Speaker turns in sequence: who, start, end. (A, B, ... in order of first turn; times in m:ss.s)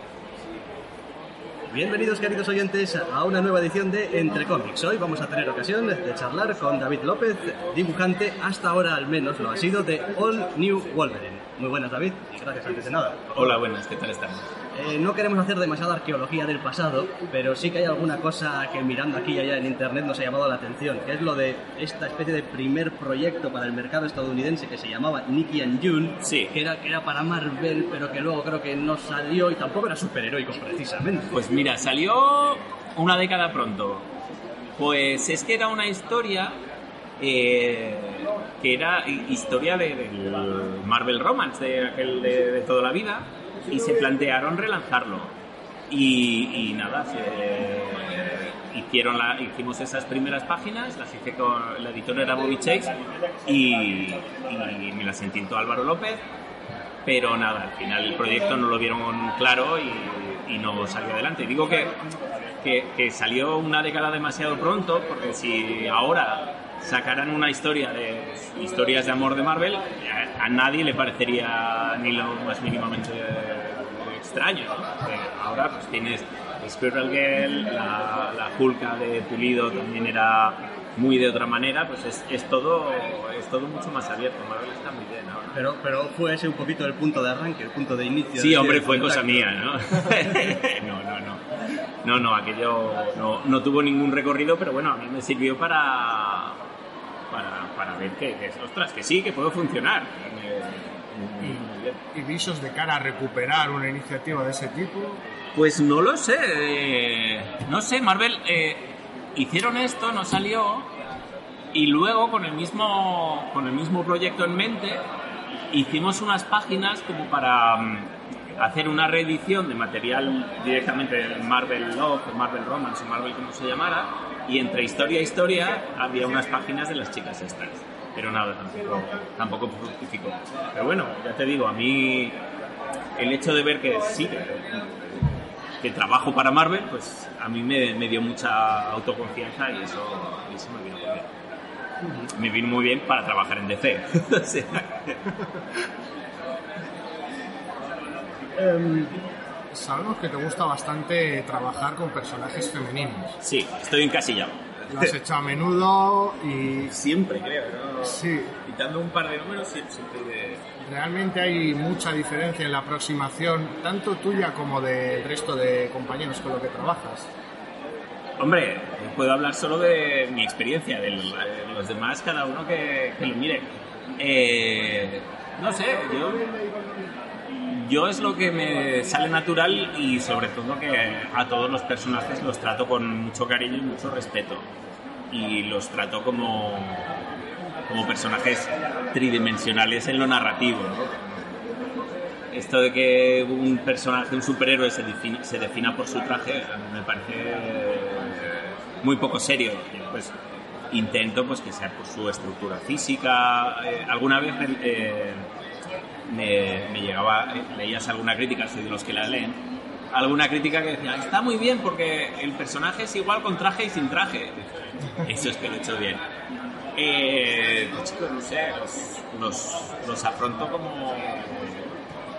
0:01.7-0:13.6 A
0:13.3-0:14.5 B
0:14.7-0:31.3 A
0:26.2-0:26.6 B
0:31.3-0:34.1 B
0:34.8-0:36.6 B
0:37.2-0:45.3 B
0:45.9-0:52.9 B
0:53.4-0:56.2 B
0:57.0-1:02.0 B
1:02.6-1:25.6 B
1:25.5-1:29.5 A
1:28.4-1:31.4 B
1:30.0-1:30.2 A
1:32.0-1:36.6 B
1:37.3-1:42.0 B
1:42.1-1:45.2 C
1:45.5-1:50.9 B
1:51.7-1:55.0 B
1:55.7-2:12.4 B
2:13.2-2:15.3 B
2:15.8-2:21.3 B
2:22.0-2:22.3 A
2:22.3-2:25.3 B
2:28.6-2:29.2 A
2:29.7-2:33.4 C
2:33.4-2:35.1 B
2:34.9-2:36.9 C
2:36.7-2:40.6 B
2:38.0-2:38.5 C
2:40.8-2:47.3 C
2:48.4-2:56.5 B
2:57.6-3:04.7 B
3:05.3-3:07.2 B
3:07.9-3:11.6 B
3:12.5-3:20.3 B
3:20.9-3:25.5 B
3:26.2-3:36.2 B
3:37.0-3:41.9 B